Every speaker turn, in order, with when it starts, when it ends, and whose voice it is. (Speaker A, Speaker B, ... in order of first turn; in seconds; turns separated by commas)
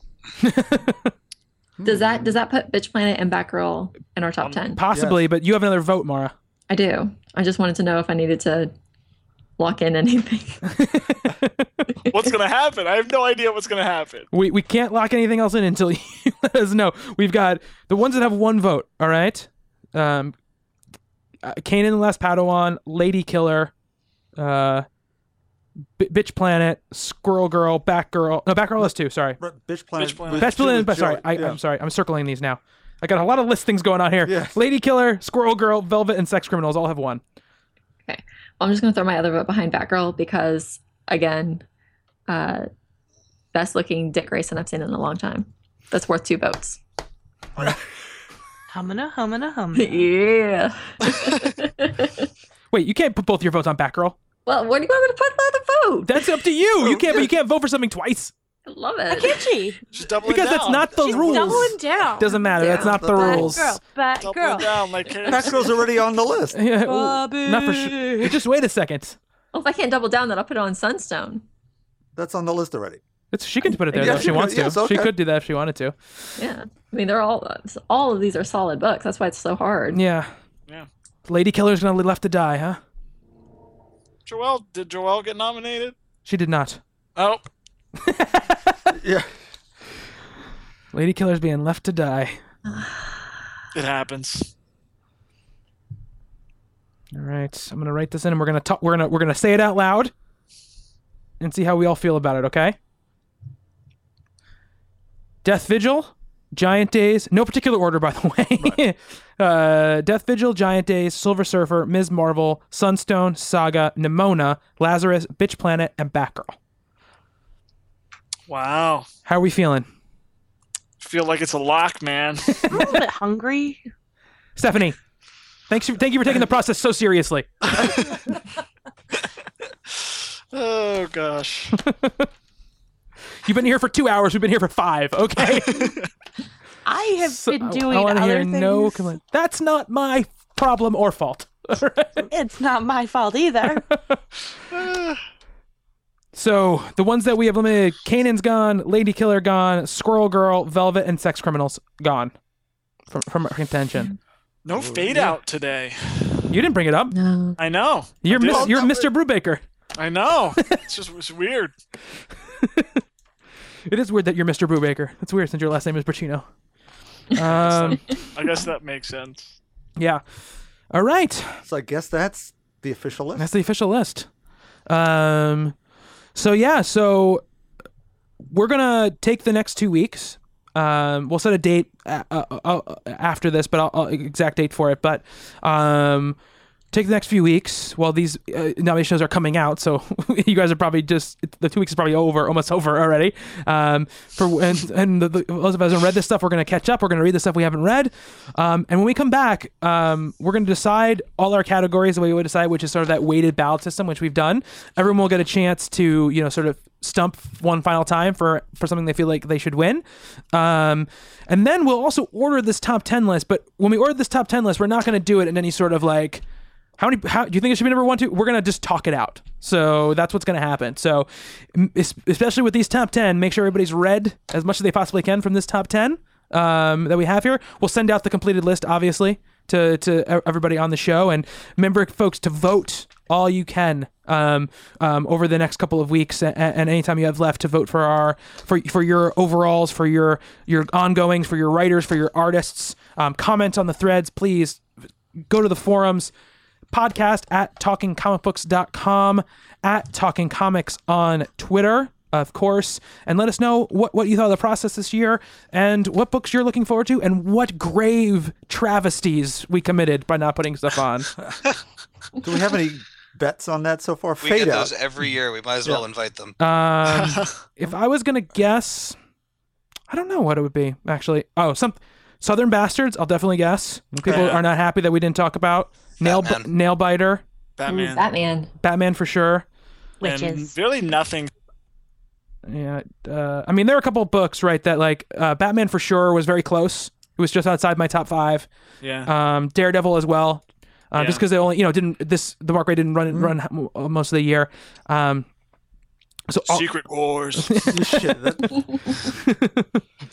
Speaker A: 0.4-1.1, Speaker B: 1.8-2.4, Speaker C: 1.9-4.8, Speaker D: 4.4-4.7, Speaker A: 4.8-6.3, Speaker B: 4.9-5.3, Speaker C: 6.7-8.7, Speaker C: 9.6-11.0, Speaker A: 10.7-11.7, Speaker D: 12.1-14.3, Speaker A: 14.3-20.3, Speaker A: 21.4-23.7, Speaker A: 24.4-24.9, Speaker A: 26.0-29.4, Speaker B: 28.8-31.6, Speaker D: 30.0-30.7, Speaker A: 30.3-37.2, Speaker B: 34.2-34.6, Speaker C: 38.1-41.6, Speaker C: 42.3-42.7, Speaker C: 43.5-46.8, Speaker E: 48.7-50.1, Speaker C: 49.8-52.3, Speaker A: 52.7-54.2, Speaker C: 54.5-56.2, Speaker A: 56.0-58.3, Speaker B: 56.8-57.3, Speaker C: 58.7-59.5, Speaker E: 59.1-59.8, Speaker D: 59.9-61.7, Speaker A: 60.2-63.8, Speaker E: 61.0-64.9, Speaker C: 62.5-63.4, Speaker B: 62.7-63.7, Speaker D: 64.2-65.8, Speaker B: 65.2-66.6, Speaker A: 66.5-69.2, Speaker E: 66.8-68.4, Speaker C: 69.5-71.4, Speaker B: 72.2-73.0, Speaker A: 73.3-76.0, Speaker B: 73.9-75.2, Speaker C: 76.4-80.0, Speaker A: 79.9-80.3, Speaker A: 81.3-82.8, Speaker D: 84.3-86.0, Speaker A: 86.2-86.8, Speaker D: 87.2-87.5, Speaker A: 88.0-88.6, Speaker B: 88.9-89.3, Speaker A: 90.9-92.4, Speaker C: 92.7-93.3, Speaker D: 93.7-94.5, Speaker A: 97.1-100.1, Speaker A: 101.4-102.8, Speaker A: 105.4-116.6, Speaker D: 118.5-119.1, Speaker A: 119.2-119.9, Speaker D: 121.0-122.8, Speaker E: 122.7-123.8, Speaker A: 124.6-125.0, Speaker A: 125.7-127.9, Speaker D: 127.7-128.3, Speaker D: 129.9-131.8, Speaker A: 131.7-132.3, Speaker A: 133.4-136.0, Speaker D: 135.5-136.1, Speaker E: 136.8-139.1, Speaker A: 137.3-142.3, Speaker E: 142.3-143.9, Speaker A: 143.7-144.2, Speaker D: 144.7-145.2, Speaker A: 146.3-152.3, Speaker A: 153.1-154.1, Speaker D: 154.7-156.5, Speaker B: 154.7-155.4, Speaker A: 156.5-157.1, Speaker C: 157.1-157.6, Speaker D: 157.6-159.0, Speaker A: 158.2-159.6, Speaker B: 158.3-159.1, Speaker D: 160.0-161.7, Speaker A: 162.4-163.0, Speaker A: 163.9-166.5, Speaker A: 167.3-168.3, Speaker D: 167.4-169.6, Speaker A: 170.0-170.2, Speaker A: 170.9-171.6, Speaker B: 171.6-173.5, Speaker A: 173.4-174.3, Speaker A: 174.9-175.8, Speaker A: 176.3-177.4, Speaker A: 178.4-186.4, Speaker A: 186.9-216.4, Speaker A: 217.0-244.8, Speaker A: 245.5-246.3, Speaker A: 246.9-261.3, Speaker B: 262.4-264.9, Speaker F: 264.4-266.6, Speaker A: 266.6-269.2, Speaker D: 267.1-267.6, Speaker A: 270.1-277.4, Speaker B: 274.1-274.6, Speaker D: 274.3-274.6, Speaker F: 276.2-276.7, Speaker D: 277.8-278.2, Speaker C: 277.9-278.7, Speaker A: 278.8-279.7, Speaker E: 280.2-280.7, Speaker D: 280.2-281.5, Speaker A: 282.6-288.7, Speaker D: 289.0-289.3, Speaker A: 289.2-295.5, Speaker D: 291.1-291.4, Speaker B: 293.3-293.6, Speaker A: 296.5-296.9, Speaker D: 296.7-298.0, Speaker A: 297.6-300.0, Speaker B: 297.9-298.8